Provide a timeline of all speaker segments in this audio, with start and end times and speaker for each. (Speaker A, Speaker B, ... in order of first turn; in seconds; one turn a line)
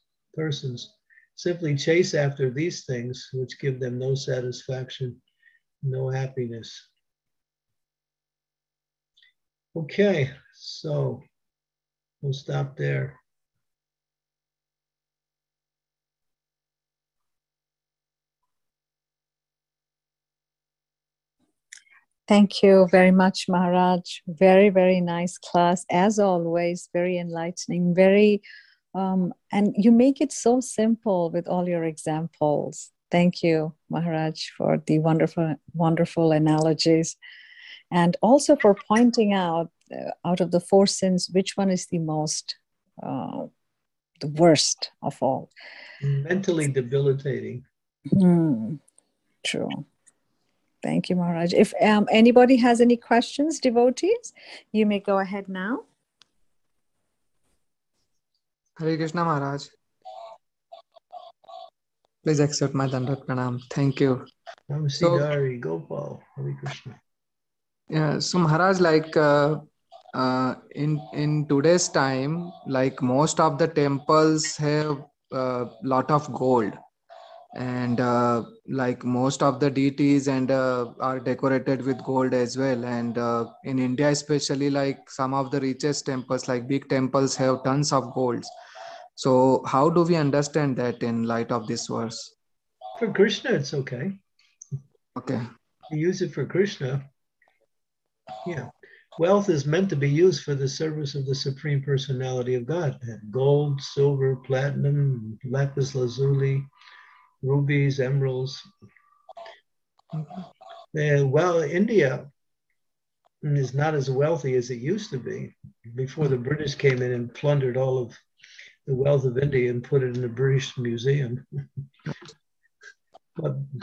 Speaker A: 0.3-5.2
Speaker A: 5.8-6.9
Speaker A: 9.7-11.2
Speaker A: 12.2-13.2
Speaker B: 22.3-28.4
Speaker B: 28.9-37.2
Speaker B: 37.9-43.5
Speaker B: 44.2-45.5
Speaker A: 46.0-47.6
Speaker B: 48.1-48.8
Speaker B: 49.4-49.9
Speaker B: 50.8-55.8
Speaker C: 58.8-59.7
Speaker C: 62.2-64.2
Speaker A: 64.7-67.0
Speaker C: 65.0-65.2
Speaker C: 67.9-76.8
Speaker C: 77.5-88.5
Speaker C: 89.2-92.3
Speaker A: 93.0-94.2
Speaker C: 95.2-95.4
Speaker A: 95.9-97.0
Speaker A: 98.4-106.7
Speaker A: 107.4-108.6
Speaker A: 110.9-112.3
Speaker A: 113.4-118.2
Speaker A: 118.8-121.4
Speaker A: 123.4-123.7